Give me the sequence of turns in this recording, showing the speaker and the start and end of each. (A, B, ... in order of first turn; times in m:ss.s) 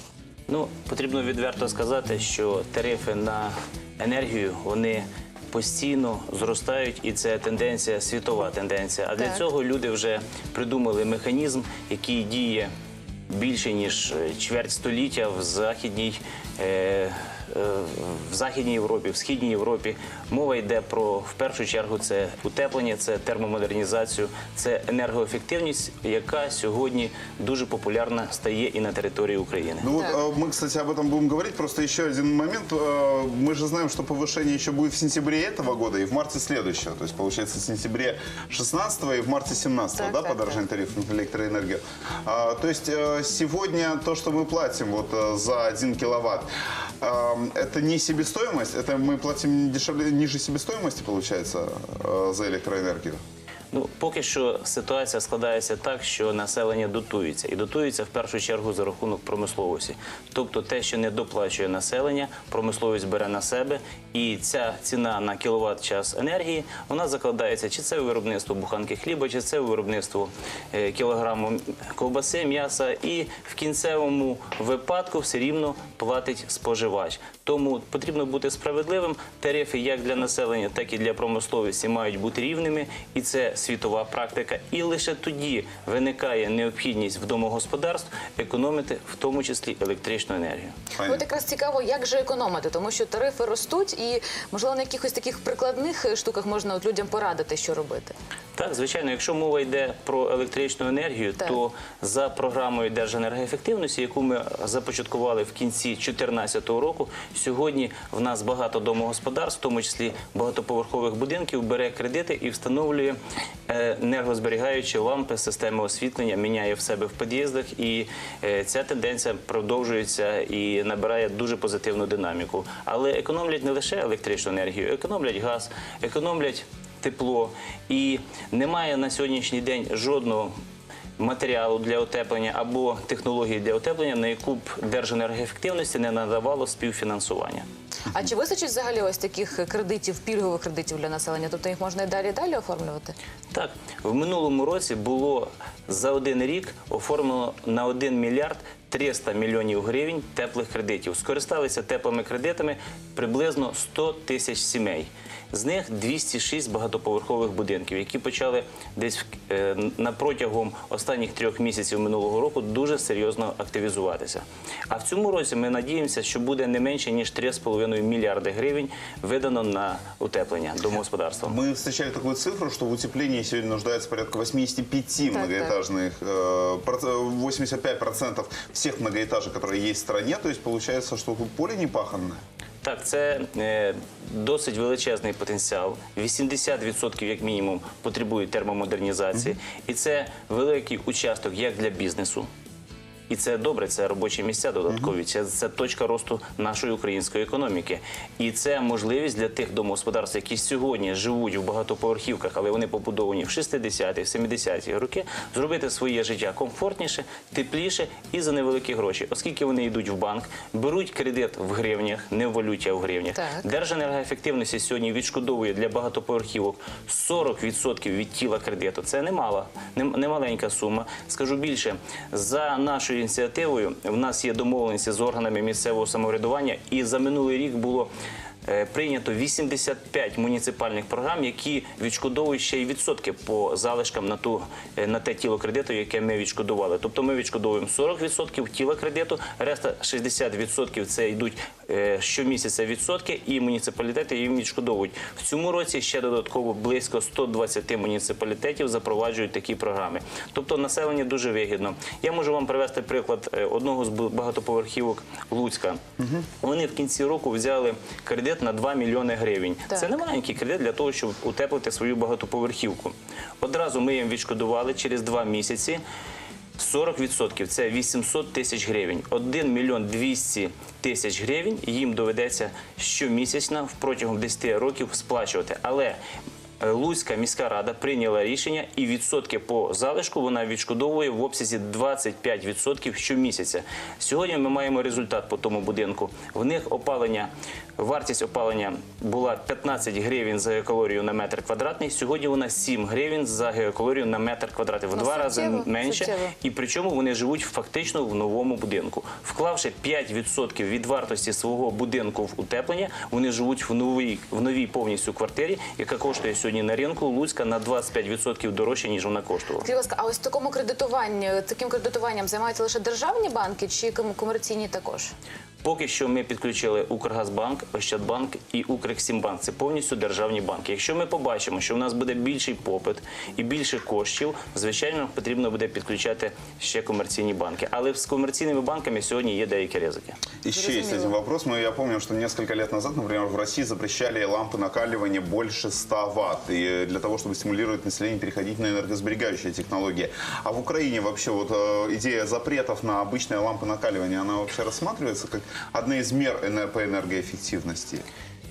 0:00.5-0:12.7 A
0:13.3-0:29.9 A
0:29.8-0:46.5 B
0:47.0-0:53.2 B
0:53.7-1:30.8 A
1:31.0-1:31.2 B
1:31.0-1:38.1 C
1:38.6-1:53.2 A
1:53.7-2:10.5 A
2:11.2-2:17.7 A
2:18.1-2:23.2 C
2:23.5-2:51.6 A
2:51.5-3:02.4 B
3:02.8-3:12.5 A
3:13.3-3:48.1 A
3:48.6-4:16.0 A
4:16.6-4:26.0 A
4:26.8-4:36.2 A
4:36.8-5:09.9 A
4:55.1-4:56.5 C
5:09.8-5:15.3 C
5:15.8-5:30.4 A
5:30.6-5:48.2 B
5:30.7-5:31.4 C